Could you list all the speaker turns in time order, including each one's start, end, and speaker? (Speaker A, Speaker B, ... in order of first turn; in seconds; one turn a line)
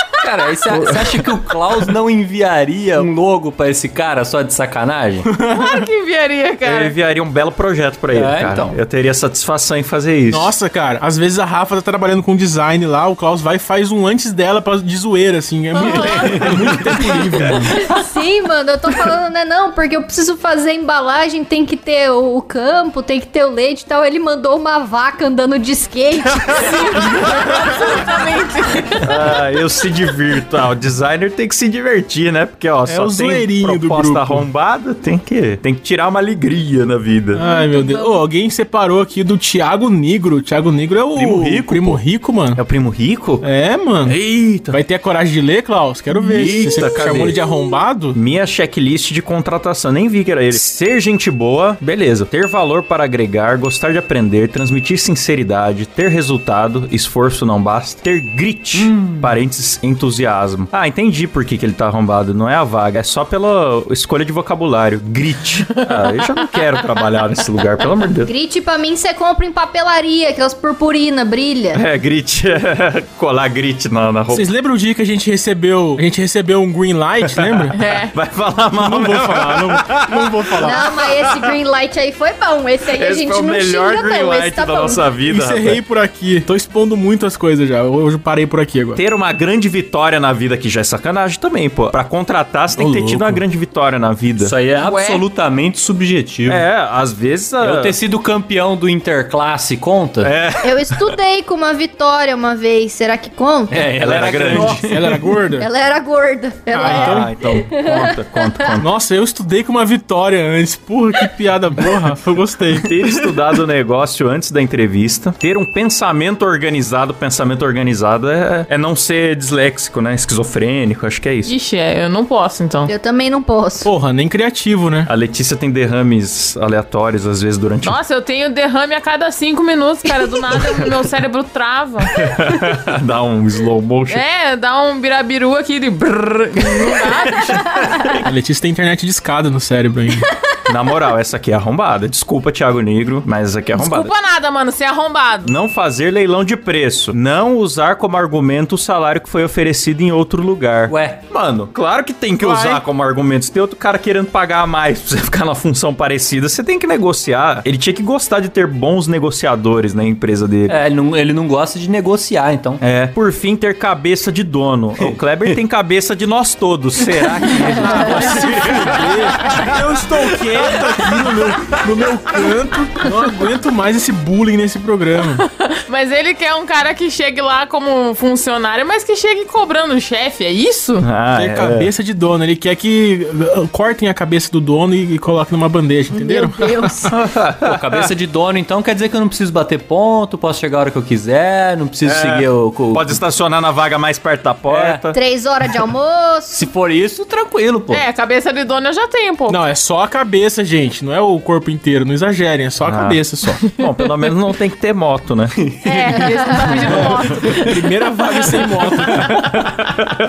Speaker A: 0.2-5.3
Speaker B: 0.7-1.3
Speaker C: 5.2-5.8
Speaker D: 5.5-7.0
Speaker B: 6.7-10.5
Speaker A: 8.1-8.8
Speaker C: 10.3-17.8
Speaker D: 15.8-16.5
Speaker B: 16.0-17.6
Speaker E: 17.8-27.0
Speaker D: 26.6-29.1
Speaker B: 29.0-37.4
Speaker C: 32.9-34.5
Speaker C: 37.3-42.6
Speaker E: 37.5-38.2
Speaker B: 41.2-42.0
Speaker B: 42.5-43.4
Speaker C: 43.4-44.2
Speaker B: 44.1-44.8
Speaker C: 44.7-48.2
Speaker B: 46.2-47.4
Speaker B: 48.1-68.3
Speaker A: 58.7-59.4
Speaker D: 65.9-66.2
Speaker E: 68.3-71.8
Speaker B: 71.7-74.5
Speaker C: 74.3-77.8
Speaker B: 77.3-80.9
Speaker D: 77.8-78.1
Speaker C: 78.7-80.8
Speaker E: 80.6-85.0
Speaker B: 82.9-85.8
Speaker C: 85.3-89.0
Speaker B: 89.0-94.5
Speaker A: 92.8-93.4
Speaker A: 94.4-96.7
Speaker D: 94.8-95.2
Speaker B: 96.5-98.0
Speaker A: 97.6-100.3
Speaker B: 100.2-101.0
Speaker E: 100.6-103.9
Speaker A: 103.7-105.1
Speaker B: 104.0-105.0
Speaker C: 104.5-105.7
Speaker E: 105.6-108.7
Speaker C: 106.7-107.3
Speaker B: 106.8-108.9
Speaker C: 108.8-113.3
Speaker B: 112.7-121.5
Speaker D: 121.5-122.9
Speaker E: 122.9-123.9
Speaker C: 123.8-125.1
Speaker B: 125.1-128.0
Speaker D: 127.8-132.2
Speaker B: 130.6-130.8
Speaker B: 132.1-134.2
Speaker D: 134.1-137.9
Speaker B: 136.9-138.1
Speaker C: 138.2-140.3
Speaker B: 140.7-144.1
Speaker D: 143.7-145.6
Speaker B: 145.4-160.8
Speaker A: 150.9-151.2
Speaker D: 152.4-152.8
Speaker A: 160.7-162.8
Speaker B: 162.8-171.1
Speaker A: 165.0-165.6
Speaker C: 167.8-175.4
Speaker D: 175.4-181.1
Speaker B: 181.0-181.9
Speaker C: 181.3-186.9
Speaker E: 186.1-187.2
Speaker B: 187.1-188.1
Speaker A: 187.6-193.2
Speaker B: 192.0-195.2
Speaker A: 194.7-195.0
Speaker E: 195.1-196.7
Speaker A: 196.6-198.0
Speaker D: 197.9-199.6
Speaker C: 199.5-203.7
Speaker B: 202.8-207.4
Speaker D: 204.0-204.3
Speaker A: 205.6-206.1
Speaker D: 205.8-207.8
Speaker C: 206.9-209.3